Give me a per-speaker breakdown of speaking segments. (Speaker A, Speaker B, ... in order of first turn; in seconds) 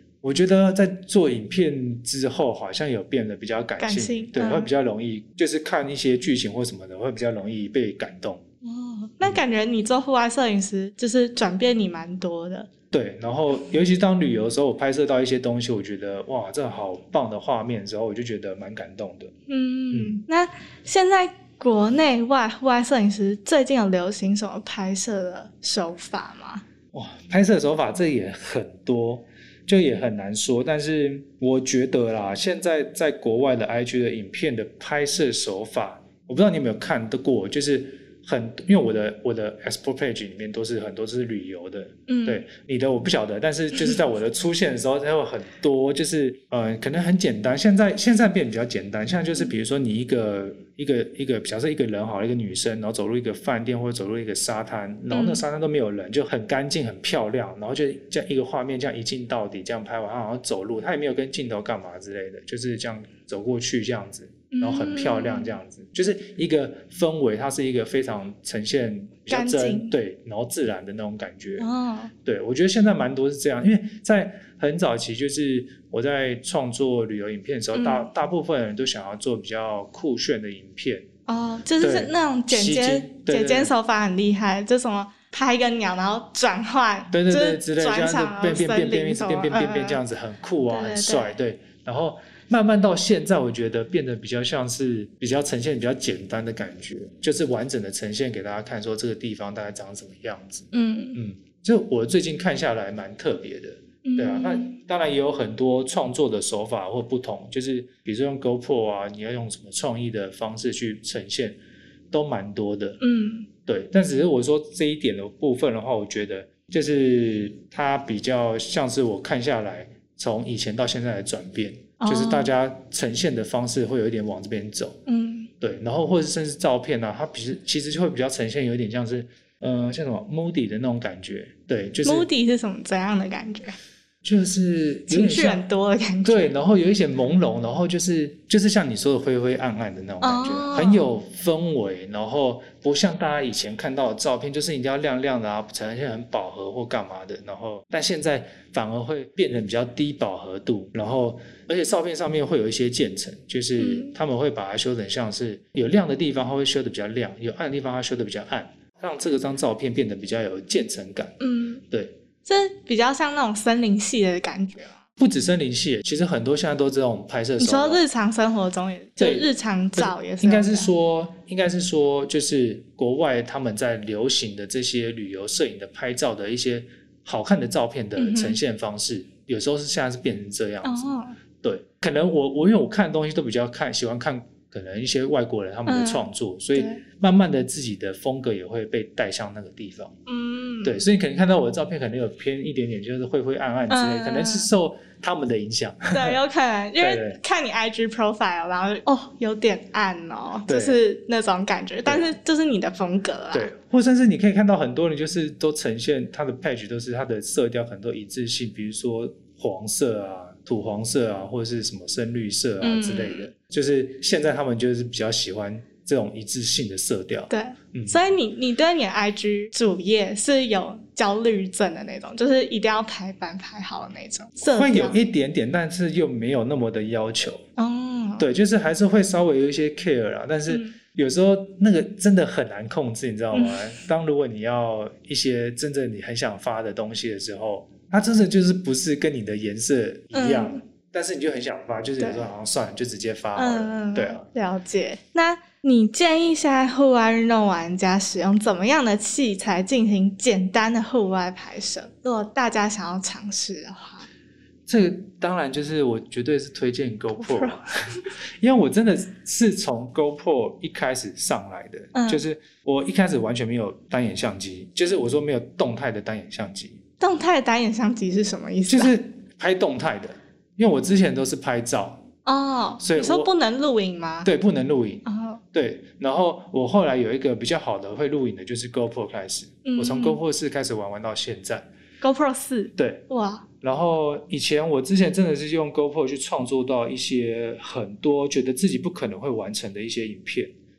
Speaker A: 0.2-8.4, 12.9-19.3, 19.9-20.2, 26.9-71.7, 72.2-81.1, 81.8-83.7, 87.1-111.6, 112.1-113.0, 113.7-125.0, 125.6-132.3, 134.2-135.6, 136.2-161.3, 161.9-162.2, 165.2-168.0, 169.2-190.1, 190.8-196.4, 197.0-197.4, 200.7-201.0, 203.5-218.2, 224.6-227.6, 228.4-244.5, 254.9-267.0, 268.9-272.3, 273.0-273.5, 274.4-281.9, 283.0-283.2, 283.8-290.7
Speaker B: 3.8-4.7, 8.6-12.7, 19.5-26.6, 42.1-42.4, 55.1-55.4, 64.5-65.5, 69.3-69.9, 71.6-72.1, 77.7-78.1, 81.3-90.0, 90.7-91.3, 100.7-101.2, 104.0-104.8, 113.0-113.5, 122.0-122.5, 125.0-125.5, 132.0-133.8, 135.1-136.5, 140.2-141.1, 153.8-154.1, 161.4-161.8, 162.4-165.0, 167.6-170.9, 178.2-178.6, 180.8-181.4, 185.8-187.0, 190.2-191.0, 193.9-194.7, 196.1-203.7, 212.8-213.5, 217.5-225.2, 227.8-228.5, 230.7-230.9, 233.5-233.9, 240.3-240.8, 242.2-242.4, 243.6-254.3, 257.4-258.2, 262.1-262.4, 267.2-269.2, 272.4-274.5, 275.2-275.6, 279.9-280.4, 282.2-283.6